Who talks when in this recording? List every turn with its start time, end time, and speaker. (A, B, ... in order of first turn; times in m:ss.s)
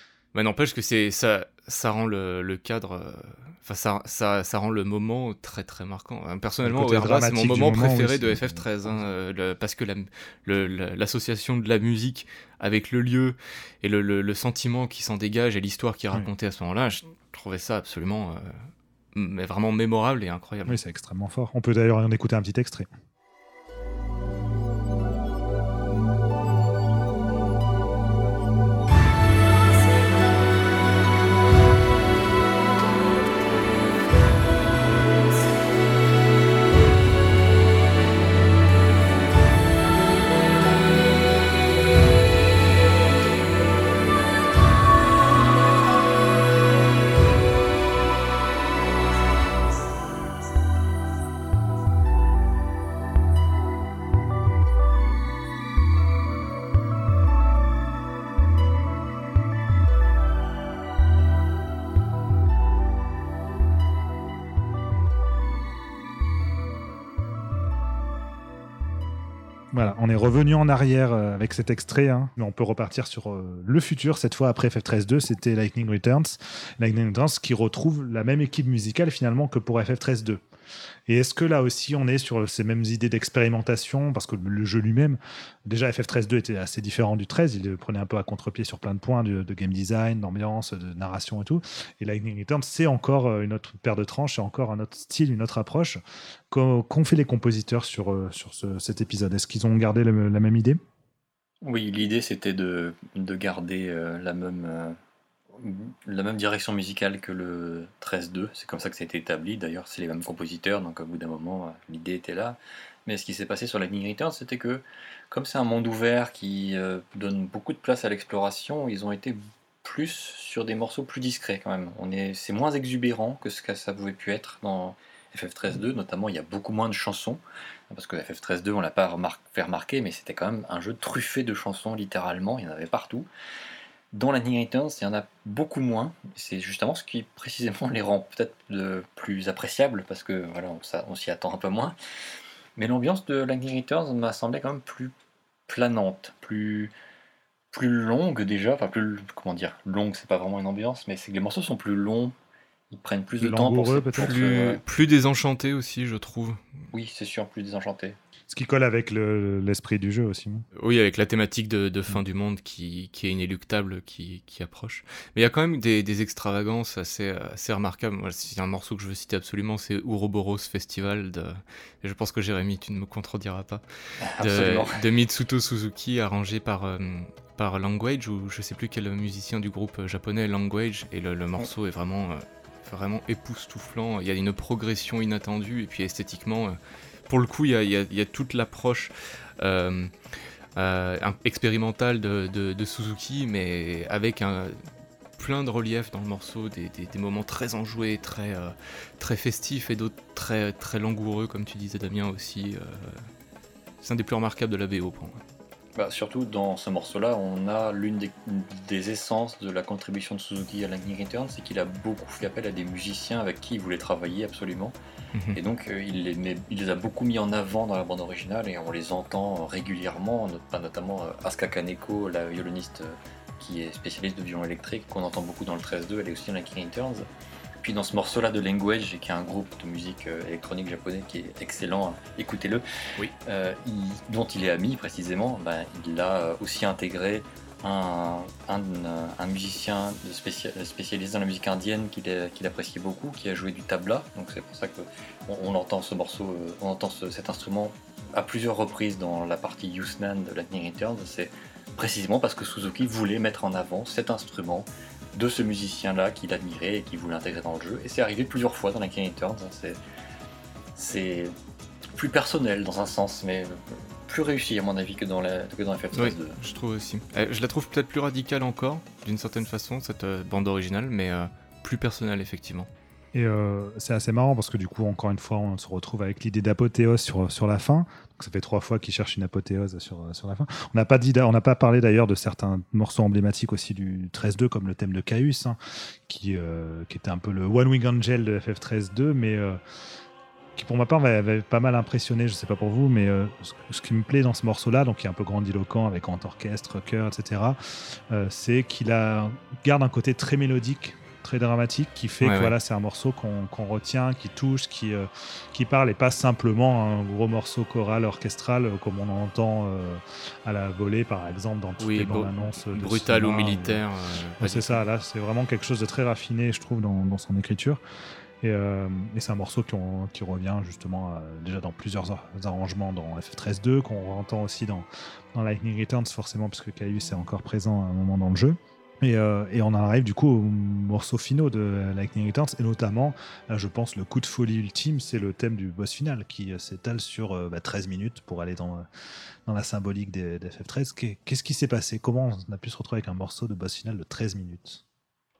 0:00.3-0:20.8 A
0:06.6-0:09.0 B
0:20.7-0:22.9 B
1:09.7-1:20.4 B
1:21.1-1:40.8 B
1:41.6-1:45.0 C
1:45.6-2:13.3 C
2:14.1-2:22.0 C
2:22.8-2:25.1 C
2:25.7-2:26.9 C
2:27.7-2:32.3 C
2:32.9-2:34.8 C
2:33.4-2:34.4 B
2:34.2-2:36.6 A
2:36.9-2:38.2 C
2:38.5-2:40.6 B
2:40.8-2:53.8 A
2:54.3-2:55.0 C
2:54.4-3:06.8 A
3:07.3-3:10.1 A
3:10.8-3:14.8 A
3:15.4-3:23.3 A
3:24.0-3:25.4 A
3:26.0-3:35.0 C
3:35.6-3:47.3 C
3:47.8-3:52.8 C
3:53.5-4:20.0 C
4:21.0-4:21.6 C
4:22.2-4:26.6 C
4:26.1-4:32.9 A
4:33.3-4:49.8 B
4:50.8-5:14.0 B
5:02.4-5:02.7 A
5:12.0-5:15.0 A
5:14.6-5:18.0 B
5:18.6-5:39.1 B
5:39.7-5:45.0 B